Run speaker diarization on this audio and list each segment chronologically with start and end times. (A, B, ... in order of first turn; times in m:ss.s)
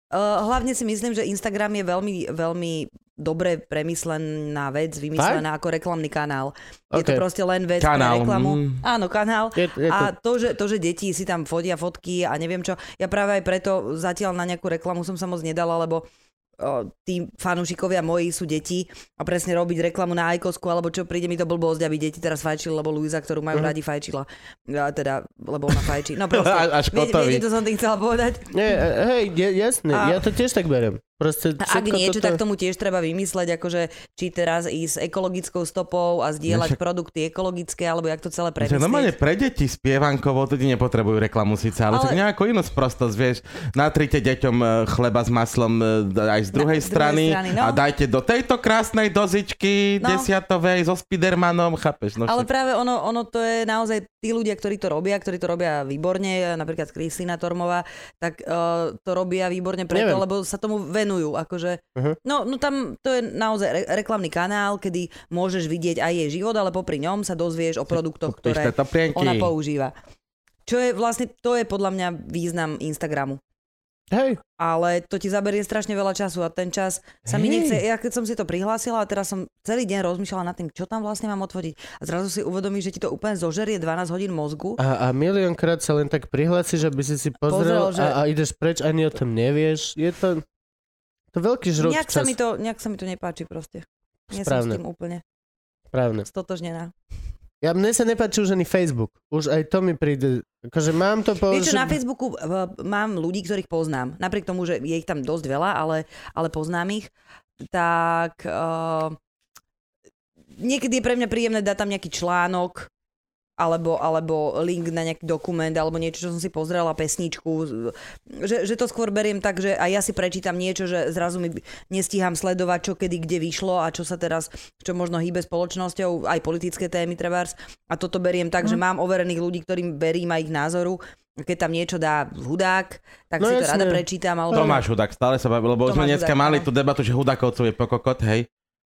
0:00.1-0:16.0 A
0:05.2-0:05.4 B
0:06.9-0:07.2 B
0:07.8-0:08.8 C
0:09.6-0:10.1 B
0:16.6-0:28.5 A
0:26.3-0:27.4 C
0:28.5-0:32.4 B
0:29.9-0:30.2 A
0:31.6-0:39.1 A
0:36.5-0:36.8 C
0:38.6-0:52.5 C
0:41.9-0:42.2 A
0:46.5-0:47.8 A
0:50.0-0:50.3 A
0:52.2-1:09.9 A
0:59.9-1:00.2 B
1:08.3-1:09.5 C
1:10.6-1:13.4 A
1:14.1-1:14.4 B
1:14.6-1:24.8 A
1:17.2-1:17.8 B
1:24.8-1:30.4 B
1:27.4-1:28.2 A
1:31.3-1:32.3 B
1:31.8-1:35.2 A
1:34.3-1:34.8 B
1:35.9-1:36.3 B
1:36.3-1:36.9 A
1:37.6-1:42.0 B
1:41.5-1:47.1 A
1:47.7-1:49.2 A
1:50.6-1:52.9 A
1:53.6-2:14.8 A
2:13.4-2:14.8 B
2:14.5-2:18.5 C
2:15.8-2:16.7 A